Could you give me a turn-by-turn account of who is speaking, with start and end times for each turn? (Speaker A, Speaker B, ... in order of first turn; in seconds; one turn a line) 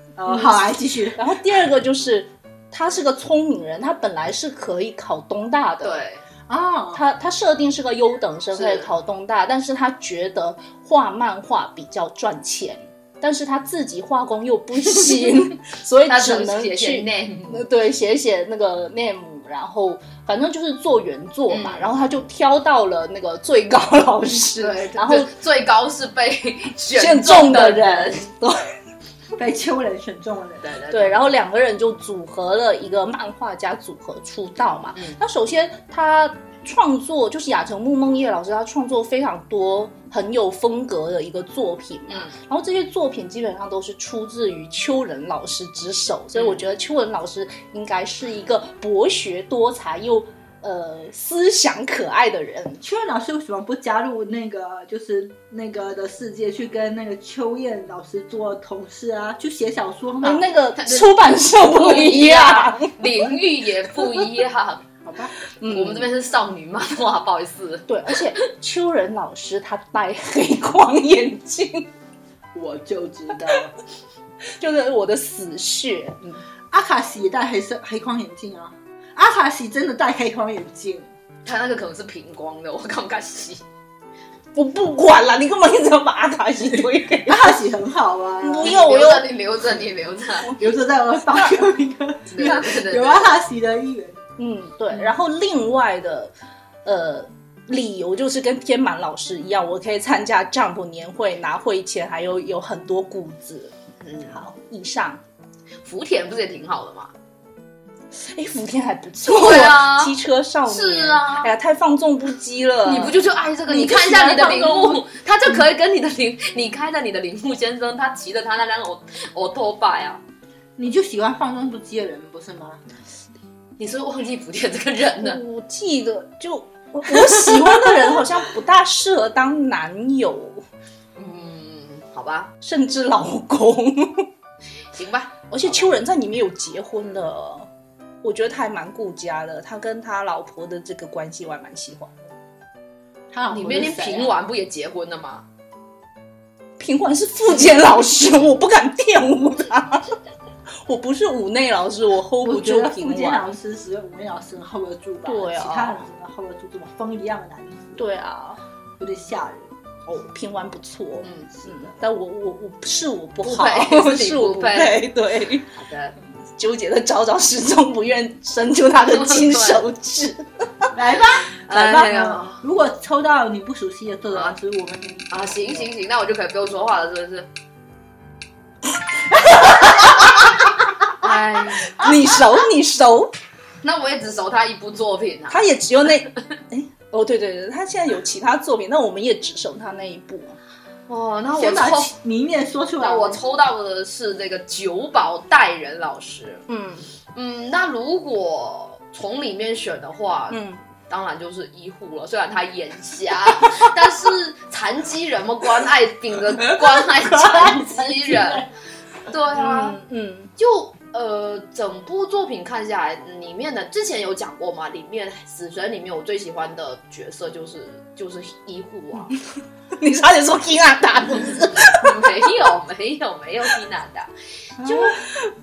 Speaker A: 0.2-1.2
Speaker B: 1.1-6.0
Speaker C: 5.8-6.2
Speaker A: 6.5-7.0
Speaker B: 6.9-25.3
Speaker C: 8.5-8.9
Speaker C: 16.1-17.7
Speaker C: 21.5-22.0
Speaker C: 24.6-28.3
Speaker B: 26.9-28.6
Speaker A: 29.4-30.7
Speaker C: 30.6-31.2
Speaker B: 30.9-52.8
Speaker C: 35.0-35.2
Speaker C: 42.1-42.4
Speaker C: 46.4-46.6
Speaker A: 52.8-60.5
Speaker B: 60.2-63.1
Speaker C: 60.8-64.8
Speaker A: 65.0-65.4
Speaker B: 65.6-66.1
Speaker C: 65.6-68.5
Speaker B: 67.9-71.9
Speaker A: 72.5-73.8
Speaker B: 74.6-76.4
Speaker A: 76.7-81.1
Speaker C: 81.5-83.6
Speaker B: 84.5-87.6
Speaker A: 87.2-88.8
Speaker B: 88.4-89.3
Speaker C: 88.6-90.5
Speaker A: 90.5-94.2
Speaker C: 92.3-93.3
Speaker B: 94.4-96.3
Speaker B: 96.8-103.7
Speaker C: 104.0-104.4
Speaker B: 104.3-105.2
Speaker C: 105.8-107.1
Speaker B: 108.2-113.2
Speaker C: 109.2-110.2
Speaker C: 110.7-111.5
Speaker C: 112.8-120.2
Speaker A: 113.7-115.0
Speaker B: 113.9-114.6
Speaker A: 120.8-122.8
Speaker C: 123.8-125.4
Speaker B: 125.2-130.6
Speaker C: 131.2-132.5
Speaker B: 132.6-134.3
Speaker C: 134.9-135.8
Speaker B: 135.5-137.7
Speaker B: 138.2-142.2
Speaker A: 143.3-144.4
Speaker C: 143.5-145.4
Speaker B: 146.8-150.1
Speaker B: 150.8-153.5
Speaker A: 152.4-158.0
Speaker B: 155.2-156.0
Speaker B: 158.0-158.6
Speaker A: 159.0-159.7
Speaker B: 160.1-165.7
Speaker C: 161.2-161.5
Speaker C: 163.4-165.1
Speaker C: 165.8-166.2
Speaker B: 166.6-170.5
Speaker C: 169.1-169.8
Speaker A: 170.9-175.9
Speaker C: 171.7-172.6
Speaker C: 175.3-177.5
Speaker C: 180.2-182.2
Speaker B: 181.9-183.3
Speaker C: 183.8-185.6
Speaker B: 185.5-190.6
Speaker C: 191.1-192.1
Speaker A: 191.5-193.4
Speaker C: 193.0-196.7
Speaker B: 196.7-197.1
Speaker C: 197.3-208.7
Speaker B: 200.5-200.8
Speaker A: 207.0-208.7
Speaker C: 209.3-210.0
Speaker B: 209.5-210.5
Speaker C: 210.6-219.4
Speaker B: 220.0-222.5
Speaker C: 221.9-224.3
Speaker A: 224.8-225.1
Speaker C: 224.8-225.2